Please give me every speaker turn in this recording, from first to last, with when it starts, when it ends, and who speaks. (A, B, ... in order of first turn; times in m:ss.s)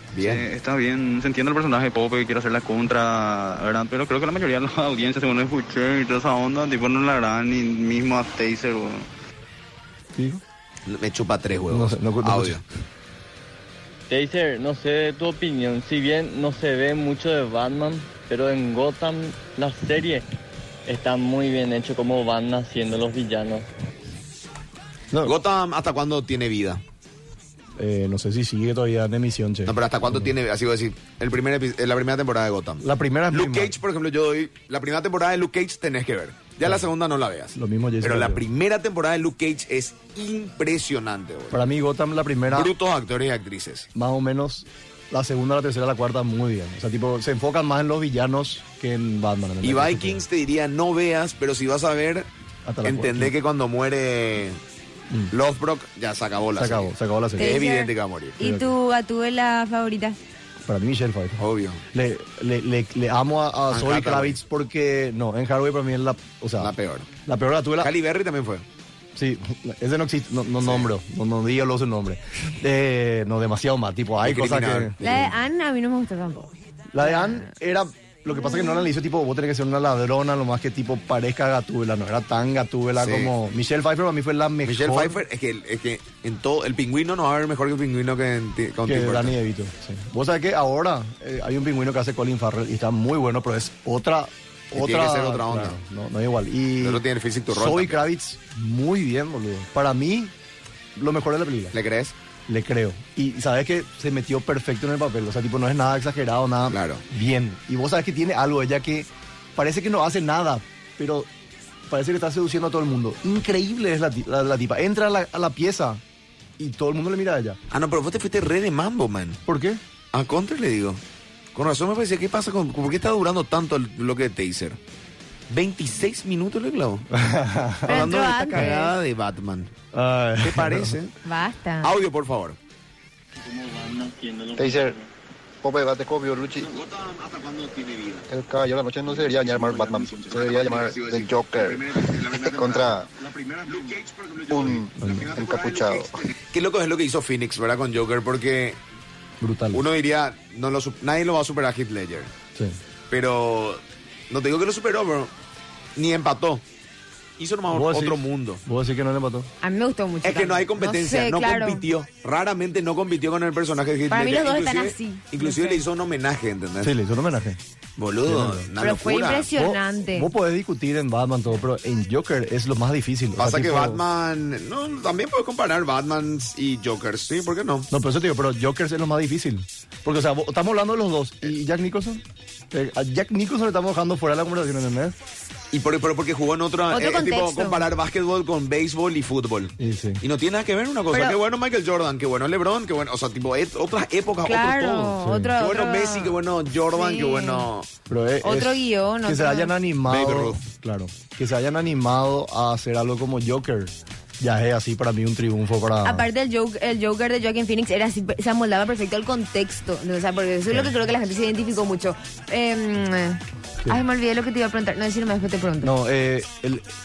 0:00.1-0:00.4 A
0:00.2-0:09.0 B
0:10.2-0:10.4 C
0:10.9-0:12.6 A
0:11.7-0:12.6 C
0:14.1-0:20.2 D
0:20.9-0:23.7 D
0:25.2-0:26.8 A
0:27.8-0:30.3 C
0:29.7-0:41.6 A
0:32.8-0:33.7 C
0:37.5-0:38.4 C
0:41.5-0:42.7 C
0:42.5-0:43.9 A
0:43.9-0:50.2 C
0:49.6-0:52.3 A
0:52.6-0:53.3 C
0:52.8-0:54.6 A
0:55.3-0:58.4 A
0:56.6-0:57.6 C
0:57.4-1:00.2 E
0:58.4-0:58.7 C
1:00.6-1:01.4 C
1:01.4-1:01.8 A
1:01.9-1:06.7 C
1:03.7-1:04.4 A
1:06.6-1:07.1 A
1:07.3-1:07.9 C
1:07.8-1:08.6 A
1:09.2-1:15.0 C
1:10.6-1:10.9 A
1:14.2-1:15.3 A
1:15.0-1:17.5 E
1:16.9-1:25.2 C
1:18.4-1:18.8 E
1:23.0-1:23.3 A
1:24.6-1:29.4 A
1:28.8-1:40.3 C
1:34.7-1:35.8 A
1:36.8-1:38.0 A
1:41.0-1:41.7 C
1:41.7-1:42.1 A
1:42.5-1:51.3 C
1:46.7-1:47.0 A
1:51.9-1:56.0 C
1:56.6-1:57.6 C
1:57.7-1:59.4 A
1:59.5-1:59.8 C
2:00.1-2:01.0 A
2:01.5-2:04.8 A
2:05.5-2:07.0 A
2:07.1-2:08.1 C
2:07.9-2:08.9 E
2:07.9-2:09.7 A
2:09.9-2:10.9 C
2:10.4-2:11.2 A
2:11.2-2:11.9 E
2:11.8-2:12.6 A
2:13.4-2:15.1 D
2:14.6-2:14.9 F
2:15.6-2:16.7 F
2:16.7-2:18.2 A
2:18.3-2:23.1 F
2:20.1-2:22.9 A
2:23.6-2:28.8 A
2:24.5-2:26.1 F
2:25.0-2:25.3 C
2:29.4-2:29.8 C
2:29.7-2:32.3 A
2:33.1-2:35.3 A
2:36.0-2:36.6 A
2:37.4-2:38.6 A
2:37.7-2:39.5 C
2:39.6-2:41.8 E
2:40.2-2:46.9 A
2:44.1-2:45.8 E
2:46.8-2:47.6 C
2:48.0-2:49.5 A
2:48.3-2:48.7 C
2:48.8-2:50.3 E
2:49.5-2:54.0 C
2:53.4-2:57.9 A
2:57.9-3:05.2 C
3:05.7-3:17.9 A
3:06.9-3:07.8 E
3:09.8-3:10.2 C
3:14.4-3:16.4 E
3:15.2-3:15.5 C
3:16.9-3:17.7 E
3:18.1-3:26.3 C
3:18.4-3:19.7 E
3:20.1-3:20.6 A
3:26.0-3:35.9 E
3:35.8-3:36.8 C